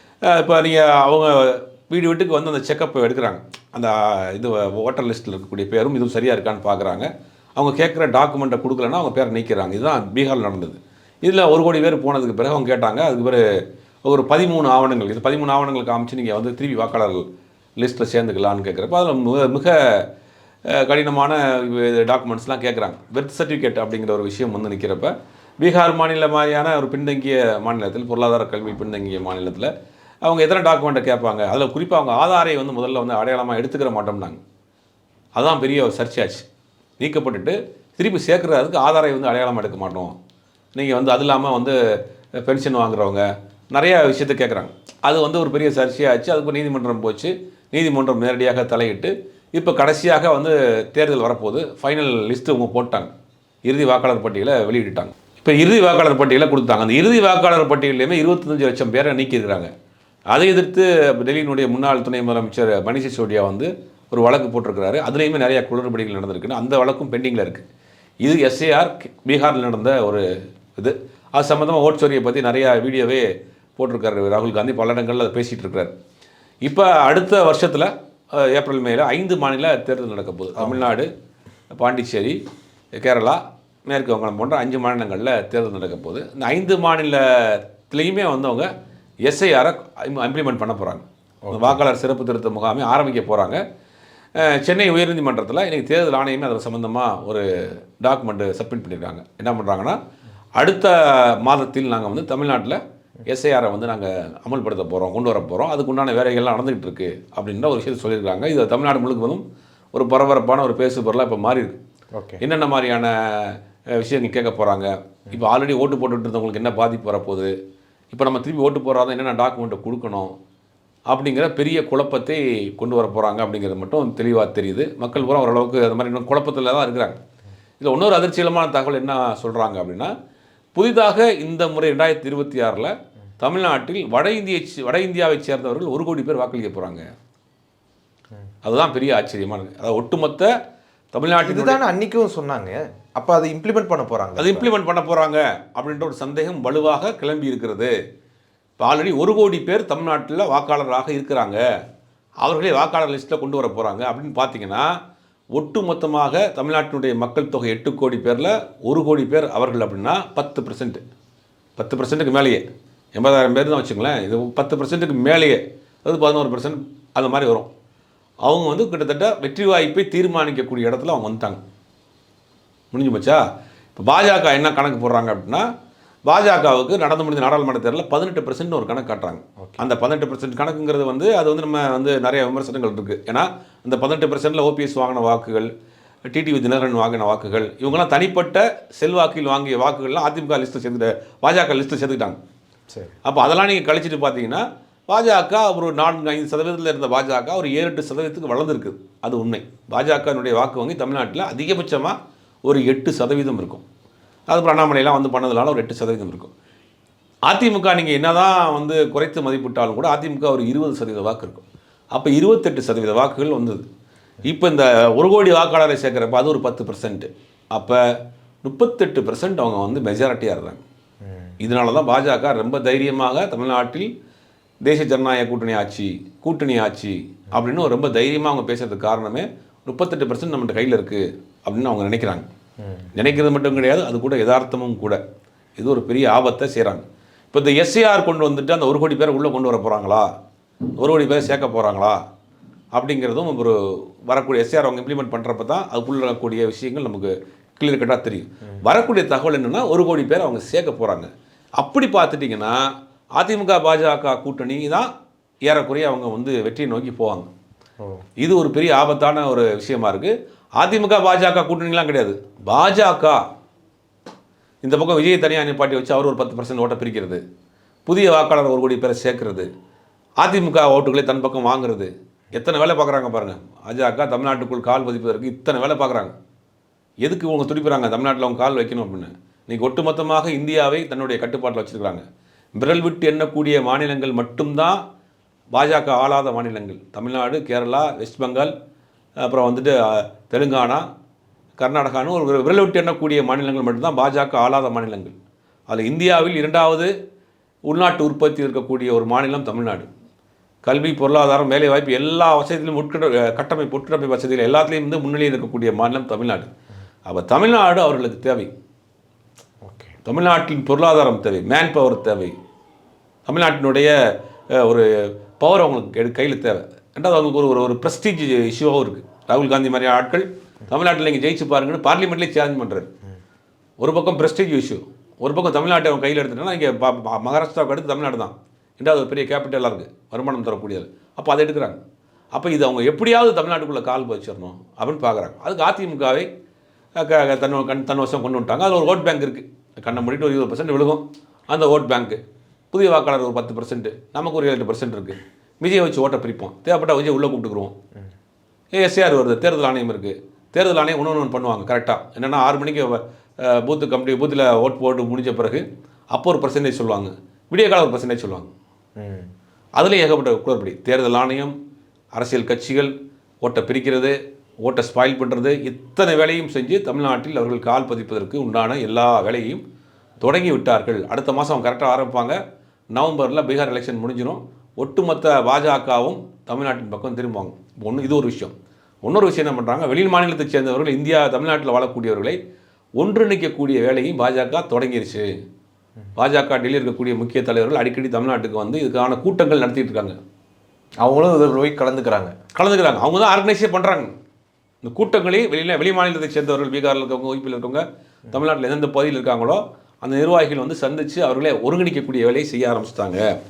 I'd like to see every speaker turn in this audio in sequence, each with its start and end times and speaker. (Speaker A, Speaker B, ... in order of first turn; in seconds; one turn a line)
Speaker A: 0.2-13.4
Speaker A: 14.0-17.2
Speaker A: 17.8-20.1
Speaker A: 20.7-29.7
Speaker A: 30.2-34.4
Speaker A: 35.4-36.5
Speaker A: 37.0-40.1
Speaker A: 40.8-41.8
Speaker A: 42.4-53.1
Speaker A: 53.7-59.7
Speaker A: 60.3-67.7
Speaker A: 68.2-70.2
Speaker A: 70.8-73.3
Speaker A: 73.8-75.9
Speaker A: 76.6-81.1
Speaker B: 80.6-80.9
Speaker A: 81.7-82.4
Speaker A: 83.0-88.7
Speaker A: 89.2-93.6
Speaker B: 91.5-91.8
Speaker A: 94.4-97.5
Speaker A: 98.0-100.0
Speaker A: 100.6-109.4
Speaker A: 109.9-111.8
Speaker B: 112.2-112.4
Speaker A: 112.4-117.5
Speaker A: 118.1-120.3
Speaker A: 121.1-127.2
Speaker A: 127.8-130.1
Speaker A: 130.8-137.1
Speaker A: 138.6-140.5
Speaker A: 141.1-141.8
Speaker B: 141.4-144.7
Speaker A: 144.4-147.9
Speaker A: 148.8-151.6
Speaker A: 152.4-155.0
Speaker A: 155.5-161.0
Speaker A: 161.8-167.7
Speaker A: 168.4-171.6
Speaker A: 172.9-173.4
Speaker A: 173.9-175.7
Speaker A: 176.3-185.7
Speaker A: 186.3-192.4
Speaker B: 192.9-193.2
Speaker A: 193.2-203.8
Speaker A: 204.5-206.5
Speaker A: 207.5-213.8
Speaker A: 214.4-218.0
Speaker A: 218.6-220.8
Speaker B: 221.3-221.6
Speaker A: 221.6-224.1
Speaker A: 224.8-232.4
Speaker B: 232.8-233.1
Speaker A: 233.2-235.2
Speaker A: 235.8-240.3
Speaker A: 241.0-242.2
Speaker A: 242.9-243.8
Speaker A: 244.3-255.1
Speaker A: 255.7-257.5
Speaker A: 258.4-263.4
Speaker A: 264.8-267.4
Speaker A: 268.1-269.7
Speaker A: 270.4-276.3
Speaker A: 277.2-282.2
Speaker A: 282.8-285.0
Speaker A: 285.7-288.7
Speaker A: 289.4-291.1
Speaker A: 291.8-295.3
Speaker A: 295.9-297.1
Speaker A: 297.9-300.1
Speaker A: 300.8-306.7
Speaker A: 307.3-308.7
Speaker B: 309.8-310.2
Speaker A: 310.2-312.6
Speaker A: 313.5-314.1
Speaker A: 314.7-323.1
Speaker A: 324.0-332.0
Speaker A: 332.5-336.5
Speaker A: 337.2-342.4
Speaker A: 342.9-347.9
Speaker A: 348.9-358.7
Speaker B: 359.2-359.5
Speaker A: 360.0-361.8
Speaker A: 362.3-369.8
Speaker A: 370.4-372.6
Speaker A: 373.1-378.7
Speaker A: 379.2-382.6
Speaker A: 383.2-385.5
Speaker A: 386.4-390.4
Speaker B: 391.2-392.5
Speaker A: 392.8-394.3
Speaker A: 395.0-403.5